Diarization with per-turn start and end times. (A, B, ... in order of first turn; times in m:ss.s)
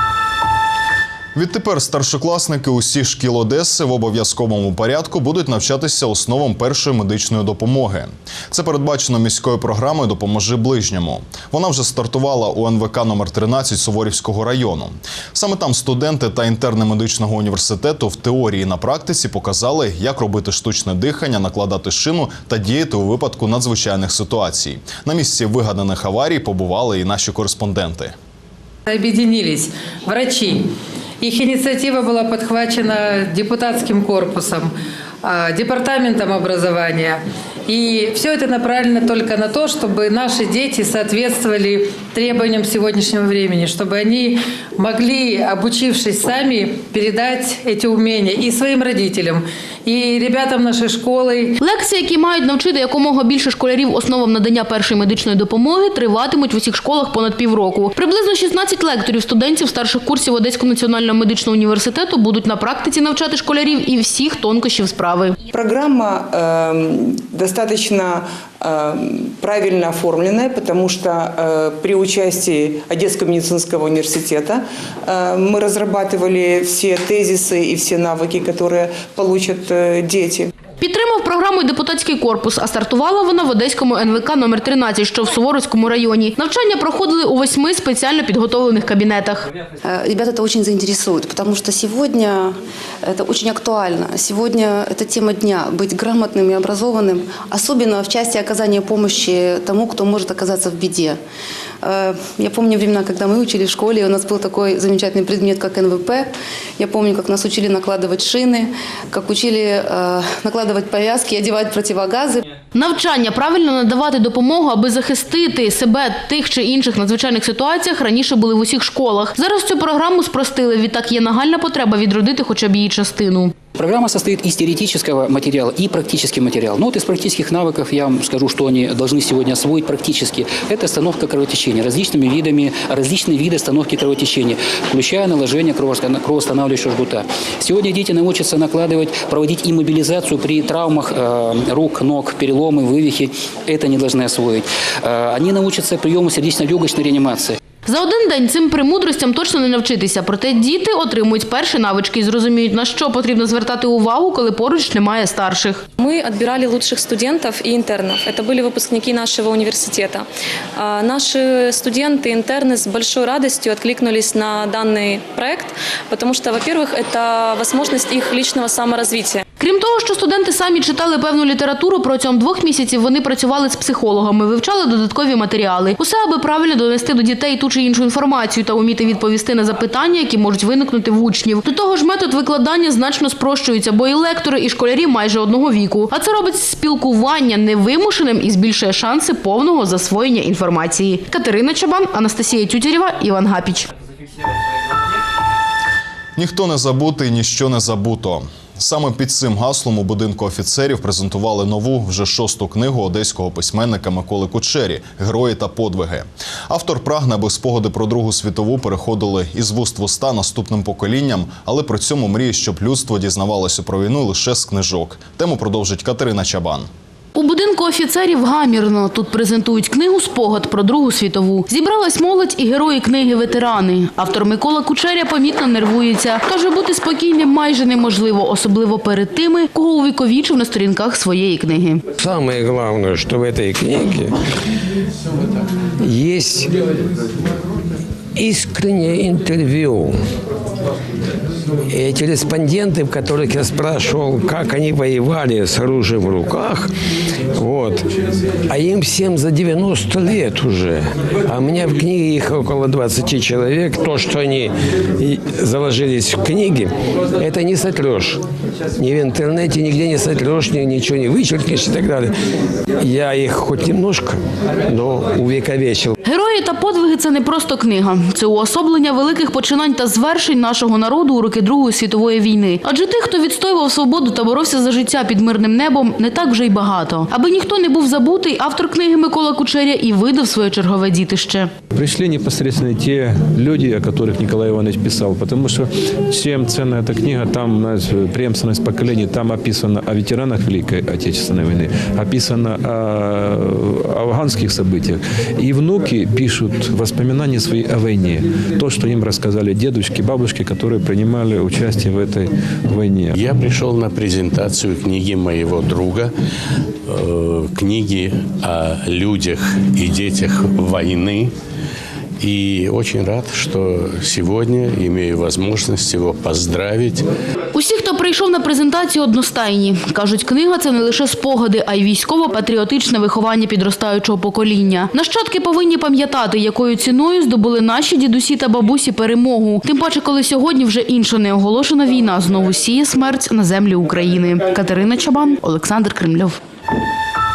0:01.3-0:28.1 A
0:28.9-0:30.6 B
0:31.2-0:34.6 B
0:35.4-0:37.2 B
0:37.7-0:51.6 B
0:51.6-1:05.4 C
1:05.5-1:20.5 D
1:20.8-1:29.5 C
1:29.8-1:41.2 E
1:41.8-1:52.4 E
1:52.7-2:03.5 C
2:03.8-2:27.6 F
2:27.8-2:35.8 C
2:36.0-2:49.4 G
2:49.6-3:13.9 C
3:16.4-3:36.9 A
3:37.3-3:52.0 C
3:52.2-3:54.3 H
3:56.0-3:56.7 H
3:58.4-4:00.1 H
4:01.9-4:06.9 H
4:07.6-4:08.0 H
4:08.7-4:18.4 H
4:19.0-4:22.3 H
4:23.0-4:26.1 H
4:26.2-4:41.7 C
4:41.9-5:03.4 I
5:03.3-5:06.3 J
5:07.1-5:11.5 J
5:12.4-5:17.2 J
5:17.7-5:36.6 C